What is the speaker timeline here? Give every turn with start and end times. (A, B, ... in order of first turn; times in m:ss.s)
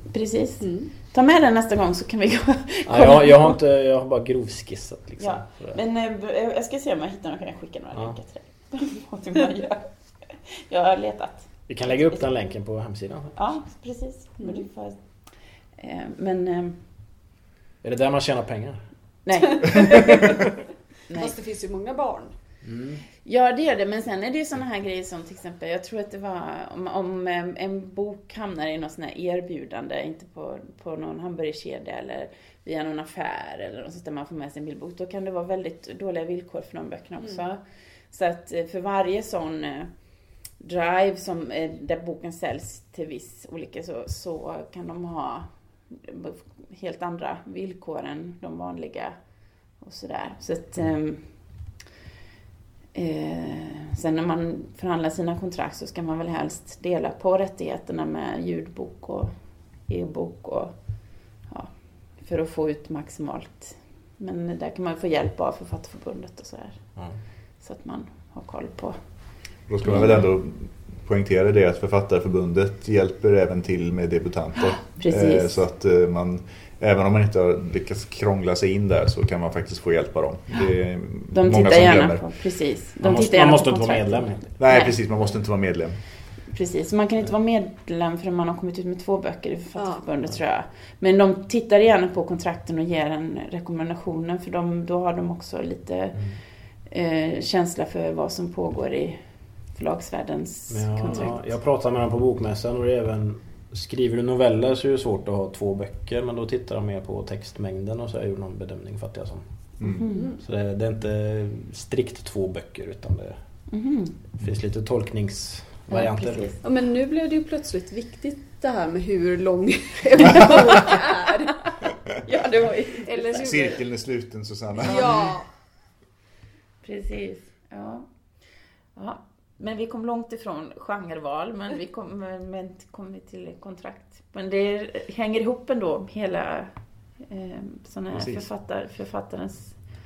0:00.1-0:03.6 A
0:00.6-0:00.9 B
0:02.8-0:05.8 C
0:05.2-0:12.2 A
0:11.7-0:13.4 C
0:13.3-0:16.8 A
0:14.4-0:14.6 B
0:17.8-0:18.9 C
0:19.2-0:20.3 A
0:21.1-0:21.3 A
0:21.1-0:22.3 B
0:22.6-0:23.0 C
0:23.2-0:51.8 A
0:52.9-1:10.2 A
1:09.7-1:22.3 D
1:14.9-1:15.6 A
1:21.3-1:25.0 A
1:23.0-1:24.4 C
1:24.6-1:26.0 D
1:26.5-1:41.6 A
1:29.7-1:30.0 B
1:36.1-1:36.4 C
1:40.7-1:53.7 C
1:49.8-1:50.0 D
1:50.0-1:50.3 A
1:50.1-1:50.4 B
1:53.7-1:54.2 A
1:54.4-1:56.5 C
1:55.9-1:56.6 A
1:56.6-2:01.7 B
2:02.2-2:03.6 A
2:03.0-2:03.8 B
2:03.4-2:05.4 D
2:04.8-2:05.5 B
2:06.8-2:08.1 A
2:08.9-2:19.8 A
2:18.1-2:18.5 D